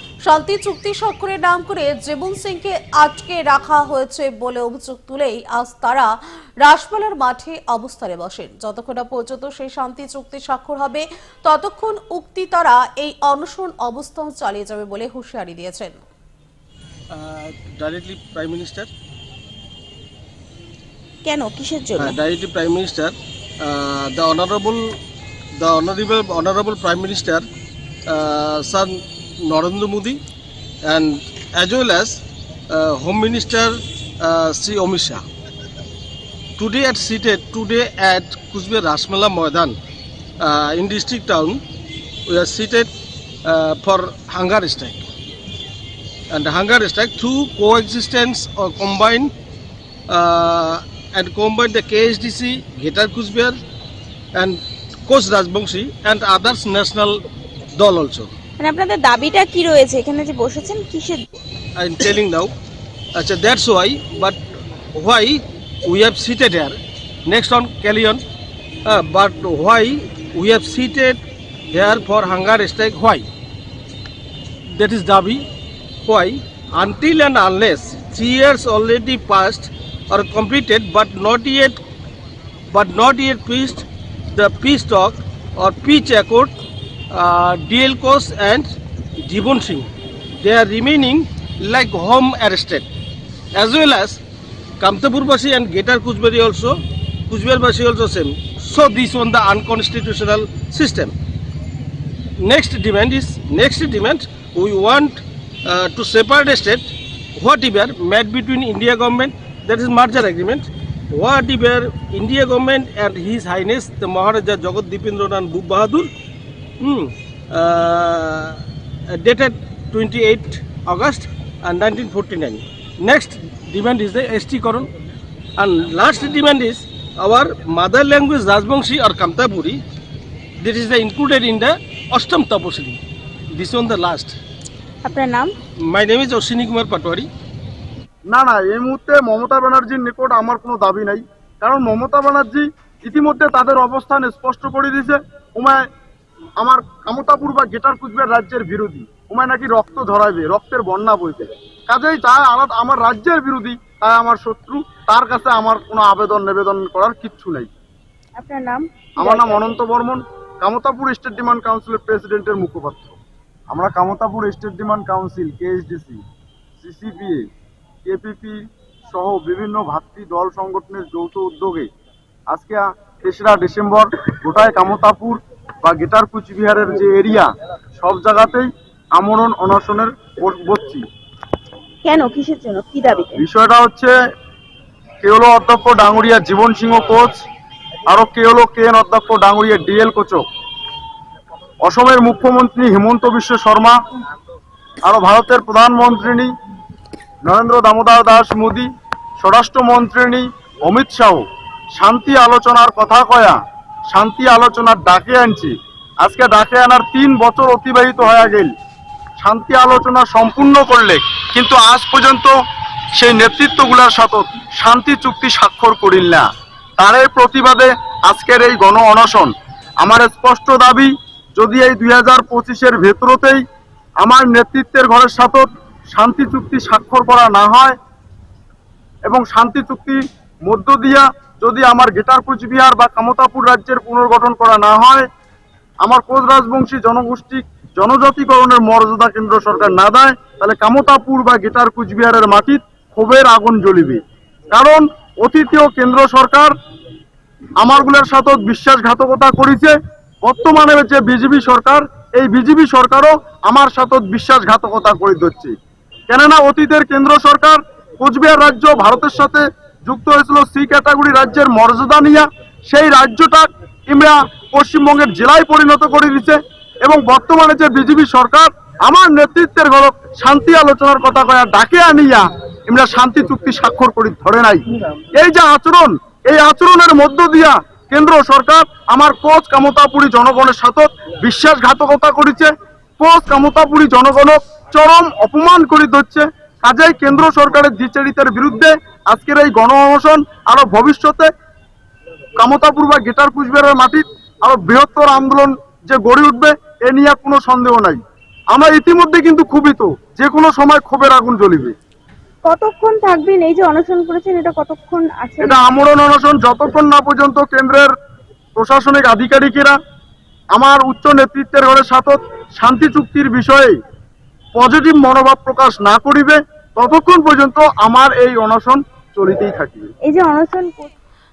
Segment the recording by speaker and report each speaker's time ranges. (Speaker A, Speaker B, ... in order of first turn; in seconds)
Speaker A: 0.2-16.0
Speaker B: 17.1-18.9, 22.0-24.8, 25.6-27.4, 28.1-30.2, 30.9-35.2, 36.6-39.8, 40.4-41.6, 42.3-42.9, 43.4-45.1, 46.3-49.3, 50.1-53.6, 54.3-57.2, 57.7-58.3, 61.8-62.5, 63.1-64.4, 64.9-68.2, 68.8-73.2, 74.7-75.5, 76.0-81.8, 82.7-86.5, 87.1-92.9, 93.5-94.2, 94.8-101.1, 102.4-116.1, 116.8-124.9, 125.6-129.8, 130.6-133.0, 133.5-134.4, 135.8-137.3
Speaker C: 21.2-22.2, 58.6-61.2, 135.0-135.5, 158.3-159.7, 182.0-183.4, 302.6-305.8, 320.2-321.1
Speaker D: 138.3-145.8, 146.6-157.7, 159.2-163.2, 163.7-166.2, 166.8-167.4, 168.0-168.6, 169.1-171.9, 172.5-181.0, 183.4-184.1, 185.2-187.4, 188.1-190.4, 191.8-194.0, 195.0-196.5, 197.4-198.9, 199.4-201.4, 201.9-208.7, 209.4-212.5, 213.1-223.6, 224.2-227.9, 229.3-235.2, 236.0-244.2, 244.7-246.7, 247.8-255.7, 256.3-274.8, 275.4-291.5, 292.6-298.2, 298.7-301.9, 305.6-308.1, 308.8-310.0, 310.7-314.0, 314.8-320.1